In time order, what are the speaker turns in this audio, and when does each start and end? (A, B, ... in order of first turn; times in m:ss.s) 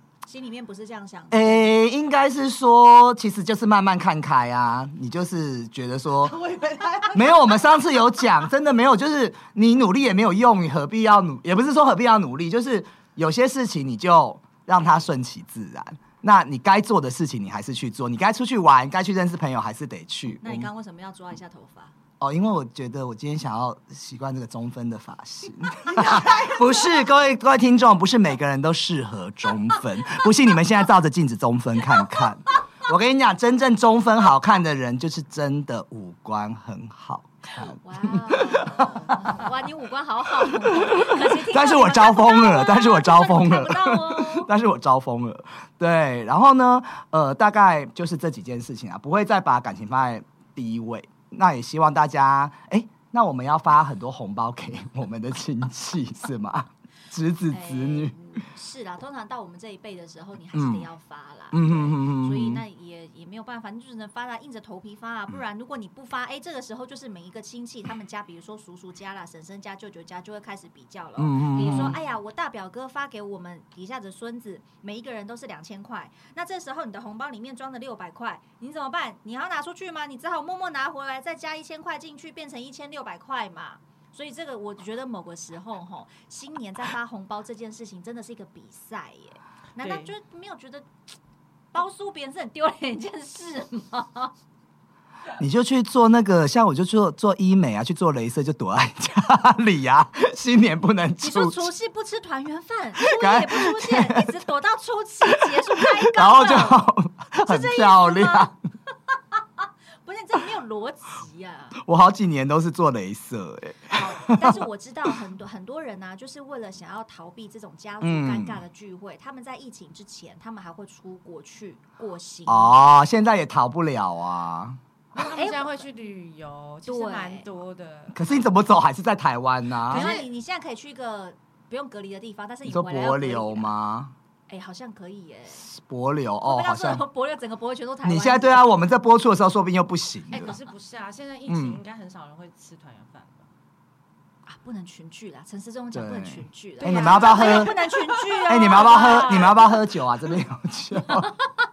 0:00.3-0:01.7 A
0:01.3-0:06.4 B
0:06.2-0:07.8 C
0:07.1-0:20.7 B
0:20.4-0:22.0 A
0:22.2-0:39.5 B
0:25.8-0:27.1 C
0:37.6-0:44.5 A
0:40.4-0:58.2 B
0:57.5-1:30.9 A
1:00.5-1:00.9 B
1:01.5-1:02.6 B
1:11.2-1:12.0 B
1:29.8-1:30.1 C
1:31.7-1:34.3 A
1:35.4-1:41.7 B
1:41.2-1:46.9 A
1:43.0-1:44.3 B
1:45.4-1:48.5 B
1:47.4-1:48.5 A
1:49.1-1:51.8 A
1:51.8-1:54.6 B
1:53.9-2:02.8 A
1:58.0-1:58.6 B
2:02.5-2:04.8 B
2:05.1-2:08.3 C
2:05.3-2:05.8 A
2:06.9-2:07.5 A
2:08.1-2:10.1 B
2:09.9-2:13.7 A
2:09.9-2:10.3 C
2:12.7-2:14.1 B
2:14.5-2:15.7 A
2:15.6-2:17.0 B
2:16.4-2:18.7 A
2:18.0-2:20.6 B
2:20.3-2:23.5 C
2:21.5-2:21.8 B
2:24.5-2:29.8 A
2:25.9-2:27.7 B
2:26.8-2:29.2 C
2:28.5-2:31.4 B